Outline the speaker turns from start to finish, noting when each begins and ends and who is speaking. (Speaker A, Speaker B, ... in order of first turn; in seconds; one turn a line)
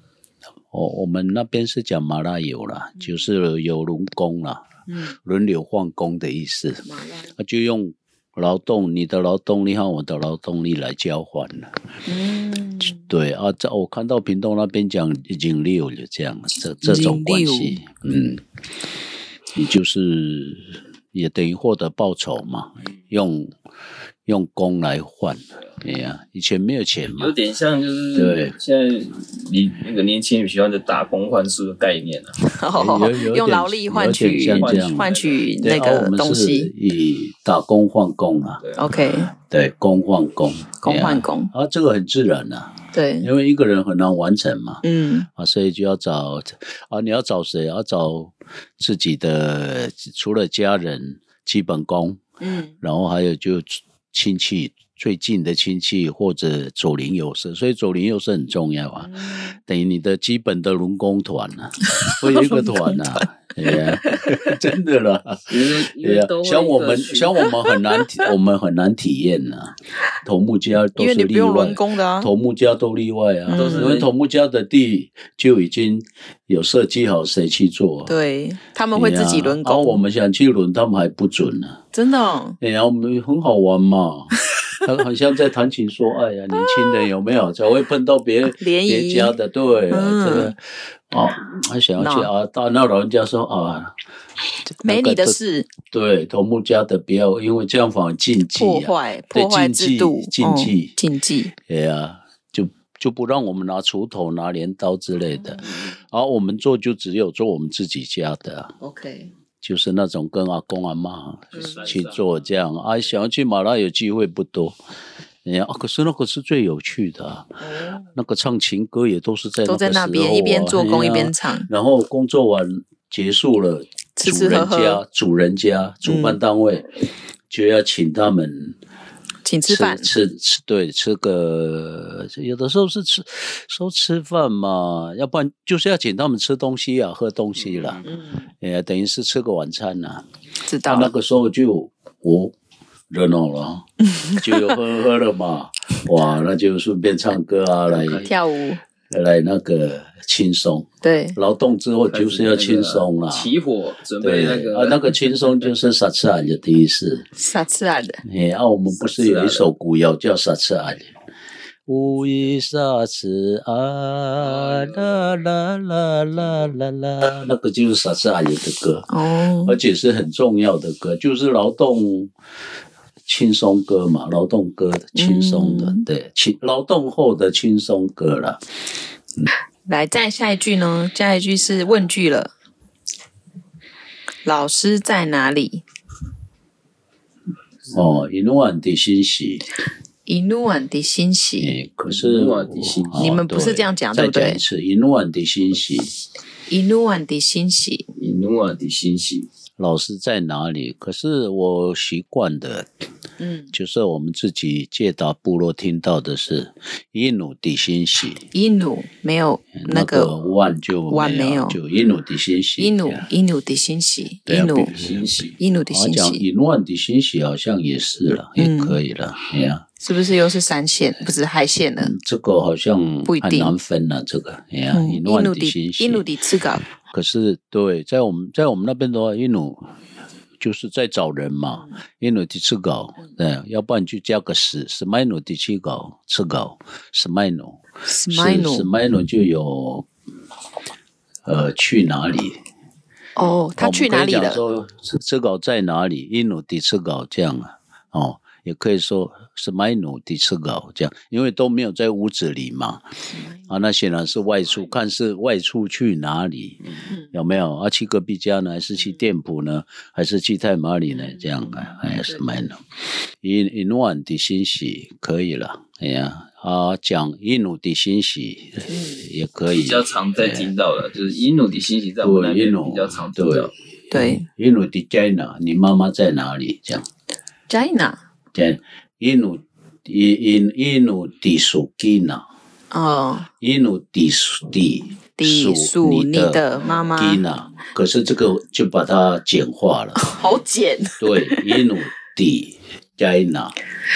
Speaker A: 0.7-4.7
Speaker B: 4.9-5.2
Speaker A: 5.2-6.8
Speaker B: 6.9-7.3
Speaker A: 7.4-11.7
Speaker B: 12.1-13.1
Speaker A: 13.0-18.4
Speaker B: 16.8-17.8
Speaker A: 19.5-23.5
Speaker A: 24.3-27.4
Speaker C: 27.2-32.4
Speaker A: 28.1-28.6
Speaker B: 32.4-36.7
Speaker A: 32.7-35.1
Speaker C: 34.5-35.4
Speaker A: 35.6-38.6
Speaker C: 38.6-38.9
Speaker B: 38.8-39.3
Speaker A: 39.4-44.8
Speaker B: 40.8-41.5
Speaker B: 42.9-43.3
Speaker B: 44.8-45.3
Speaker A: 45.4-52.2
Speaker B: 52.4-52.8
Speaker A: 52.8-78.2
Speaker B: 59.0-59.5
Speaker B: 62.0-64.5
Speaker C: 65.5-67.5
Speaker B: 71.0-72.3
Speaker B: 73.5-74.0
Speaker C: 73.5-74.1
Speaker B: 78.1-80.0
Speaker A: 79.0-81.8
Speaker B: 81.9-82.6
Speaker A: 82.6-94.0
Speaker B: 88.5-89.4
Speaker B: 89.9-90.5
Speaker B: 92.0-92.3
Speaker A: 94.7-100.9
Speaker B: 94.8-95.7
Speaker B: 98.5-101.5
Speaker A: 101.6-108.7
Speaker B: 105.4-105.8
Speaker B: 108.8-109.3
Speaker A: 109.6-114.8
Speaker C: 111.5-112.4
Speaker B: 111.5-111.8
Speaker A: 115.5-117.5
Speaker B: 117.6-118.2
Speaker A: 118.2-126.9
Speaker B: 119.7-121.7
Speaker B: 124.2-125.0
Speaker B: 126.0-126.4
Speaker A: 127.5-128.8
Speaker B: 129.4-130.1
Speaker A: 129.7-138.0
Speaker C: 137.6-138.1
Speaker B: 138.1-138.5
Speaker A: 138.6-140.2
Speaker B: 140.7-141.1
Speaker A: 140.9-142.5
Speaker A: 143.1-148.3
Speaker B: 144.2-144.8
Speaker C: 147.9-148.3
Speaker B: 148.2-148.8
Speaker A: 149.1-153.5
Speaker B: 151.0-151.4
Speaker C: 152.1-155.8
Speaker A: 154.2-157.3
Speaker B: 157.4-158.2
Speaker A: 158.2-161.1
Speaker C: 159.0-159.7
Speaker A: 161.9-169.1
Speaker C: 164.4-165.5
Speaker B: 169.1-169.8
Speaker A: 169.7-172.3
Speaker A: 173.3-178.6
Speaker B: 175.2-176.1
Speaker B: 179.9-182.5
Speaker B: 184.4-185.8
Speaker A: 187.9-189.7
Speaker B: 190.3-191.8
Speaker A: 191.6-196.1
Speaker C: 192.1-193.4
Speaker B: 193.2-194.6
Speaker B: 196.7-198.1
Speaker C: 198.2-199.5
Speaker A: 199.8-202.9
Speaker B: 203.4-203.7
Speaker A: 203.7-208.4
Speaker B: 208.5-210.3
Speaker A: 209.8-213.3
Speaker B: 211.1-211.8
Speaker B: 212.8-214.9
Speaker A: 214.5-215.3
Speaker C: 214.9-215.6
Speaker B: 215.6-216.4
Speaker A: 215.9-219.8
Speaker B: 218.6-219.0
Speaker B: 220.0-222.2
Speaker A: 222.0-226.2
Speaker B: 223.3-223.7
Speaker B: 224.9-226.9
Speaker A: 227.0-229.9
Speaker A: 230.6-240.1
Speaker B: 238.1-238.9
Speaker A: 241.5-242.6
Speaker B: 243.4-244.6
Speaker A: 243.8-253.0
Speaker B: 253.3-253.7
Speaker A: 253.7-256.8
Speaker A: 257.3-262.9
Speaker A: 263.4-270.7
Speaker B: 268.9-269.2
Speaker C: 269.7-273.7
Speaker A: 272.2-277.1
Speaker B: 274.1-274.5
Speaker B: 277.7-278.2
Speaker A: 278.5-282.4
Speaker B: 282.9-283.5
Speaker A: 283.6-286.6
Speaker B: 285.4-287.4
Speaker A: 287.2-290.2
Speaker B: 290.2-291.8
Speaker A: 291.2-293.8